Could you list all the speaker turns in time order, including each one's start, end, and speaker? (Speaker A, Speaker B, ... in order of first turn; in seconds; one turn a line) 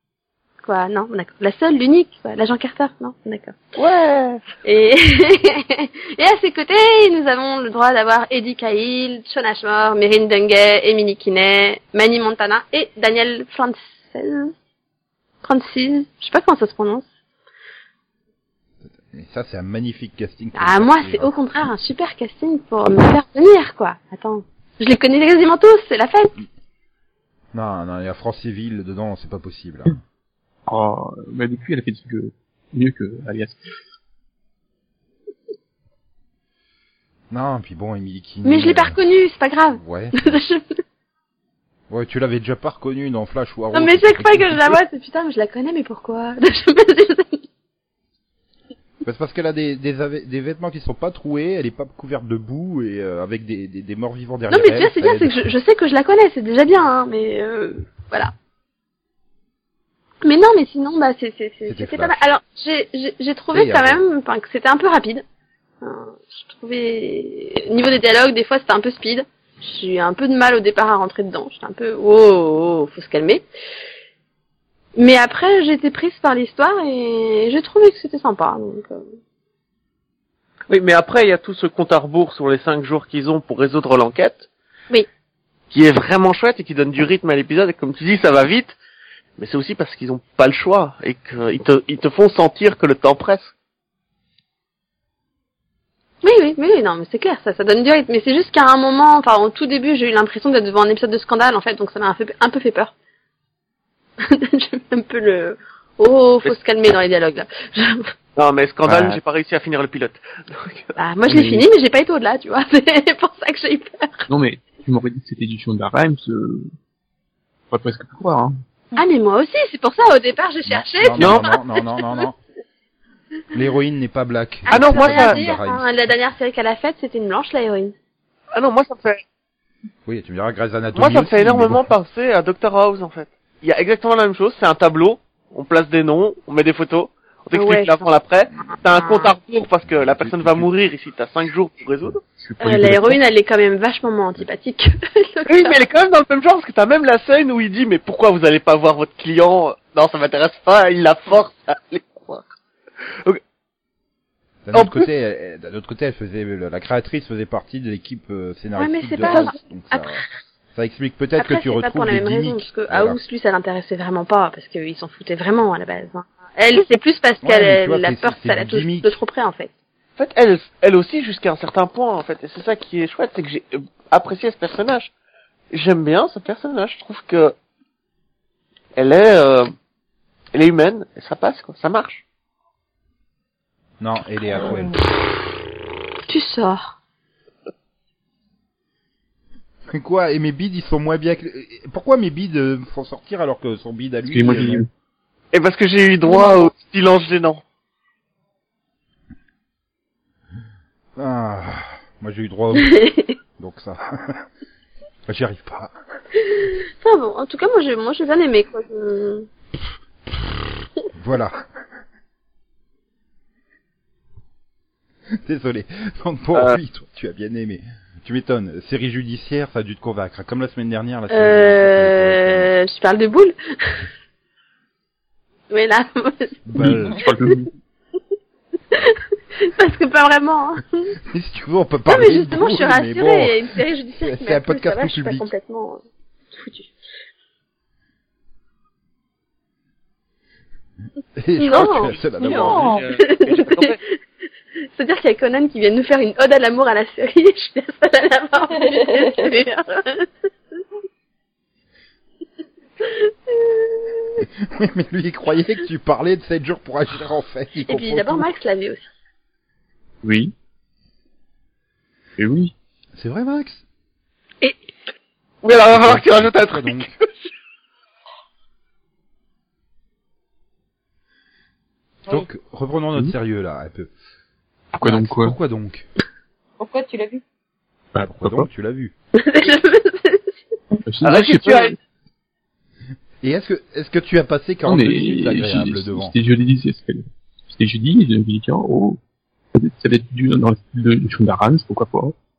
Speaker A: 0.6-3.7
Speaker B: 3.8-4.4
Speaker A: 4.6-14.5
Speaker A: 15.4-17.1
Speaker C: 19.0-21.3
Speaker A: 20.6-26.3
Speaker C: 27.5-30.0
Speaker D: 30.7-33.6
Speaker C: 37.3-39.0
Speaker A: 38.4-40.6
Speaker C: 39.7-40.4
Speaker C: 41.9-44.8
Speaker A: 43.7-47.4
Speaker C: 49.0-55.5
Speaker A: 54.5-58.3
Speaker A: 60.2-65.2
Speaker C: 61.6-62.2
Speaker C: 63.5-64.0
Speaker A: 65.8-73.4
Speaker A: 75.0-79.0
Speaker B: 80.7-84.5
Speaker B: 85.7-88.8
Speaker B: 89.4-93.5
Speaker A: 96.2-102.9
Speaker A: 104.2-108.1
Speaker B: 108.3-111.0
Speaker D: 108.8-109.1
Speaker A: 111.0-114.3
Speaker D: 111.2-111.7
Speaker D: 114.3-116.7
Speaker D: 117.7-118.5
Speaker A: 119.0-122.2
Speaker C: 120.7-122.4
Speaker B: 121.2-121.4
Speaker C: 123.5-126.0
Speaker A: 124.7-127.9
Speaker B: 124.7-125.4
Speaker B: 128.5-129.2
Speaker C: 130.1-131.8
Speaker B: 130.9-142.2
Speaker A: 137.5-138.1
Speaker A: 138.7-139.3
Speaker C: 139.8-140.7
Speaker D: 142.4-143.2
Speaker A: 142.6-145.8
Speaker B: 145.5-152.4
Speaker C: 154.6-160.2
Speaker B: 154.7-155.1
Speaker A: 158.8-160.2
Speaker B: 159.2-159.5
Speaker C: 160.7-163.2
Speaker A: 161.4-169.7
Speaker C: 167.4-169.2
Speaker B: 170.2-175.1
Speaker B: 175.7-177.5
Speaker B: 178.9-179.7
Speaker B: 180.5-182.2
Speaker C: 184.0-185.1
Speaker A: 186.3-186.9
Speaker C: 189.9-194.8
Speaker D: 194.3-194.9
Speaker B: 195.5-197.6
Speaker A: 196.2-196.7
Speaker C: 201.2-202.9
Speaker A: 202.7-203.3
Speaker C: 203.6-204.4
Speaker C: 205.3-205.9
Speaker A: 206.4-209.5
Speaker C: 211.1-211.5
Speaker C: 215.4-222.7
Speaker A: 221.3-224.0
Speaker A: 225.7-226.6
Speaker C: 226.7-227.2
Speaker D: 226.8-227.7
Speaker A: 228.9-231.1
Speaker C: 231.3-233.6
Speaker A: 232.1-236.9
Speaker C: 234.2-235.5
Speaker C: 241.4-242.9
Speaker A: 241.6-242.1
Speaker B: 241.7-244.0
Speaker E: 242.4-243.1
Speaker A: 243.2-244.1
Speaker A: 244.9-250.3
Speaker E: 248.8-249.5
Speaker A: 253.0-254.4
Speaker C: 254.7-258.5
Speaker A: 257.9-259.1
Speaker D: 260.2-260.5
Speaker D: 262.4-262.7
Speaker C: 263.1-263.8
Speaker B: 265.6-267.2
Speaker C: 265.9-267.1
Speaker C: 272.3-274.1
Speaker D: 274.9-275.6
Speaker C: 275.0-276.1
Speaker E: 276.8-277.4
Speaker D: 278.1-278.7
Speaker C: 278.2-279.1
Speaker A: 279.3-280.5
Speaker D: 281.1-281.9
Speaker B: 281.2-281.9
Speaker C: 283.4-286.3
Speaker D: 284.9-289.2
Speaker D: 289.7-292.3